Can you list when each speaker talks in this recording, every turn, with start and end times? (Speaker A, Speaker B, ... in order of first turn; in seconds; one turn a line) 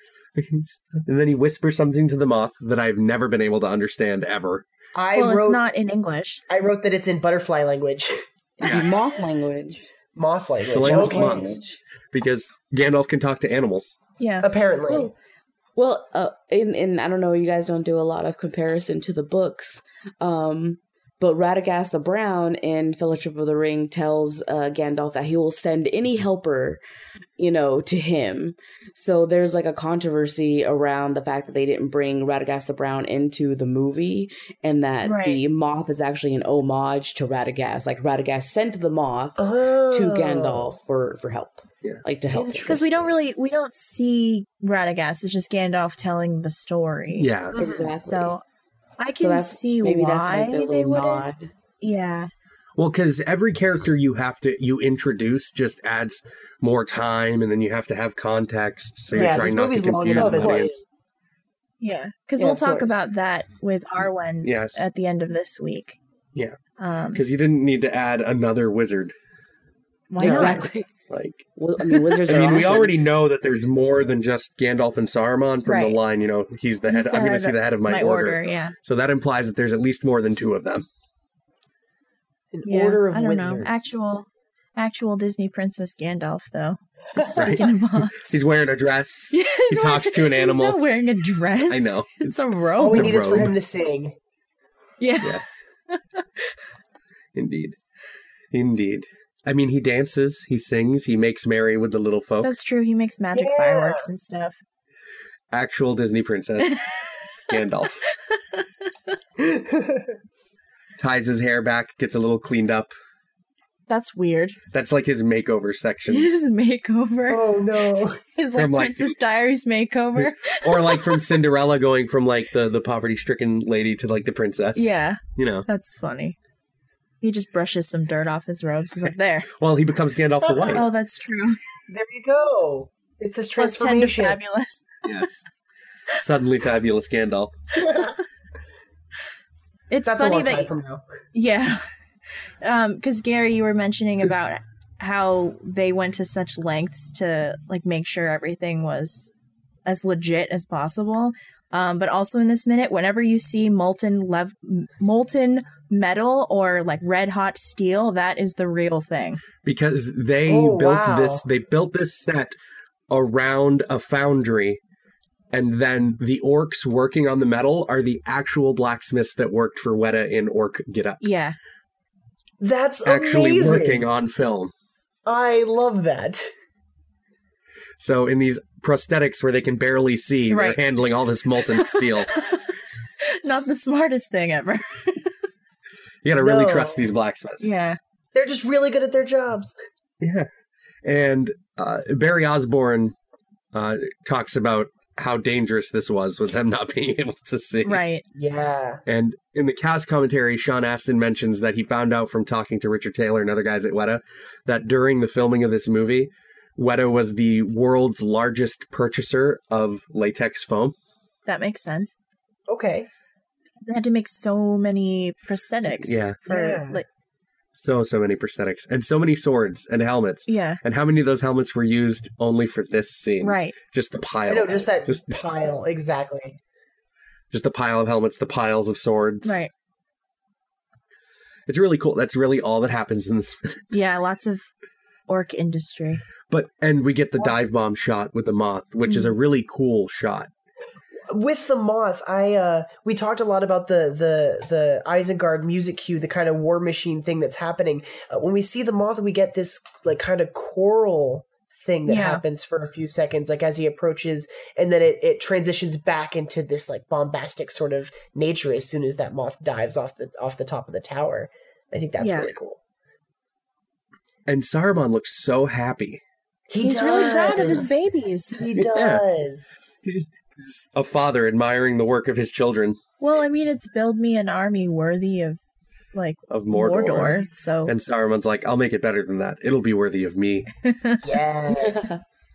Speaker A: 0.4-4.7
Speaker B: 4.9-5.6
Speaker C: 5.2-6.4
Speaker B: 6.5-8.2
Speaker D: 8.6-9.9
Speaker A: 8.6-9.0
Speaker B: 10.1-11.6
Speaker A: 10.7-11.6
Speaker D: 10.8-11.8
Speaker A: 12.1-14.0
Speaker C: 14.2-14.5
Speaker B: 14.4-15.1
Speaker D: 14.9-15.1
Speaker D: 15.8-26.8
Speaker D: 27.4-43.0
Speaker C: 35.0-35.4
Speaker B: 39.4-40.8
Speaker B: 42.3-42.9
Speaker C: 42.6-47.3
Speaker A: 47.1-47.6
Speaker D: 47.5-48.4
Speaker B: 47.6-47.9
Speaker C: 48.0-48.4
Speaker C: 49.0-51.3
Speaker D: 49.2-51.5
Speaker C: 51.8-52.3
Speaker A: 52.8-60.8
Speaker B: 59.1-60.8
Speaker C: 59.1-59.5
Speaker C: 61.8-66.0
Speaker B: 62.4-63.0
Speaker A: 64.4-64.8
Speaker C: 66.8-67.2
Speaker A: 67.1-69.1
Speaker C: 70.1-70.7
Speaker D: 70.2-70.9
Speaker B: 70.2-70.6
Speaker A: 71.1-71.5
Speaker D: 71.6-72.9
Speaker A: 72.3-80.9
Speaker C: 75.7-76.0
Speaker C: 76.8-78.8
Speaker B: 82.5-84.0
Speaker C: 82.7-88.4
Speaker A: 87.3-90.8
Speaker C: 89.3-93.5
Speaker A: 91.7-93.5
Speaker B: 92.8-94.2
Speaker C: 95.0-96.5
Speaker A: 95.2-95.5
Speaker A: 97.3-97.8
Speaker A: 98.5-102.5
Speaker C: 102.4-104.6
Speaker B: 103.3-104.1
Speaker A: 105.5-106.8
Speaker C: 106.8-107.2
Speaker A: 107.5-108.0
Speaker C: 108.1-108.7
Speaker B: 109.4-110.1
Speaker A: 111.0-112.9
Speaker C: 113.9-114.6
Speaker A: 114.7-116.3
Speaker C: 116.1-117.7
Speaker B: 117.3-118.2
Speaker C: 118.3-121.2
Speaker A: 118.5-119.2
Speaker A: 120.2-125.7
Speaker C: 124.8-126.4
Speaker C: 127.2-129.5
Speaker A: 129.6-130.9
Speaker B: 130.5-130.8
Speaker C: 130.7-131.6
Speaker B: 131.9-134.4
Speaker C: 133.6-135.0
Speaker A: 135.0-135.4
Speaker A: 136.2-137.6
Speaker C: 139.9-140.7
Speaker B: 140.1-141.0
Speaker C: 141.3-141.8
Speaker C: 142.6-149.3
Speaker C: 149.9-159.4
Speaker A: 159.6-162.6
Speaker B: 160.5-161.5
Speaker A: 163.1-164.8
Speaker A: 165.5-171.3
Speaker C: 171.2-171.6
Speaker B: 172.6-174.1
Speaker A: 173.0-174.7
Speaker B: 175.3-176.5
Speaker A: 178.0-182.3
Speaker C: 180.5-180.8
Speaker C: 181.7-182.7
Speaker C: 183.4-185.3
Speaker A: 186.2-187.7
Speaker B: 186.4-187.1
Speaker C: 187.6-188.0
Speaker B: 188.3-189.8
Speaker A: 190.2-190.5
Speaker A: 191.1-193.2
Speaker A: 193.7-198.0
Speaker C: 197.8-198.2
Speaker B: 198.3-199.0
Speaker A: 199.1-210.9
Speaker C: 211.5-212.2
Speaker B: 212.7-213.1
Speaker C: 213.8-217.1
Speaker A: 215.9-216.4
Speaker B: 216.5-217.0
Speaker A: 217.7-225.4
Speaker C: 220.5-220.8
Speaker C: 223.4-223.8
Speaker B: 224.5-226.6
Speaker A: 227.5-229.7
Speaker C: 229.4-229.7
Speaker A: 231.7-233.8
Speaker C: 233.9-234.7
Speaker C: 235.3-236.2
Speaker A: 236.5-240.5
Speaker C: 239.1-239.3
Speaker B: 241.3-262.8
Speaker C: 252.1-252.4
Speaker C: 262.2-262.5
Speaker A: 264.5-266.2
Speaker B: 266.7-268.0
Speaker C: 266.8-268.6
Speaker B: 268.6-269.8
Speaker A: 268.8-269.2
Speaker A: 270.0-273.0
Speaker C: 273.2-275.6
Speaker C: 276.1-277.9
Speaker A: 276.5-280.7
Speaker B: 281.2-282.2
Speaker D: 281.7-282.2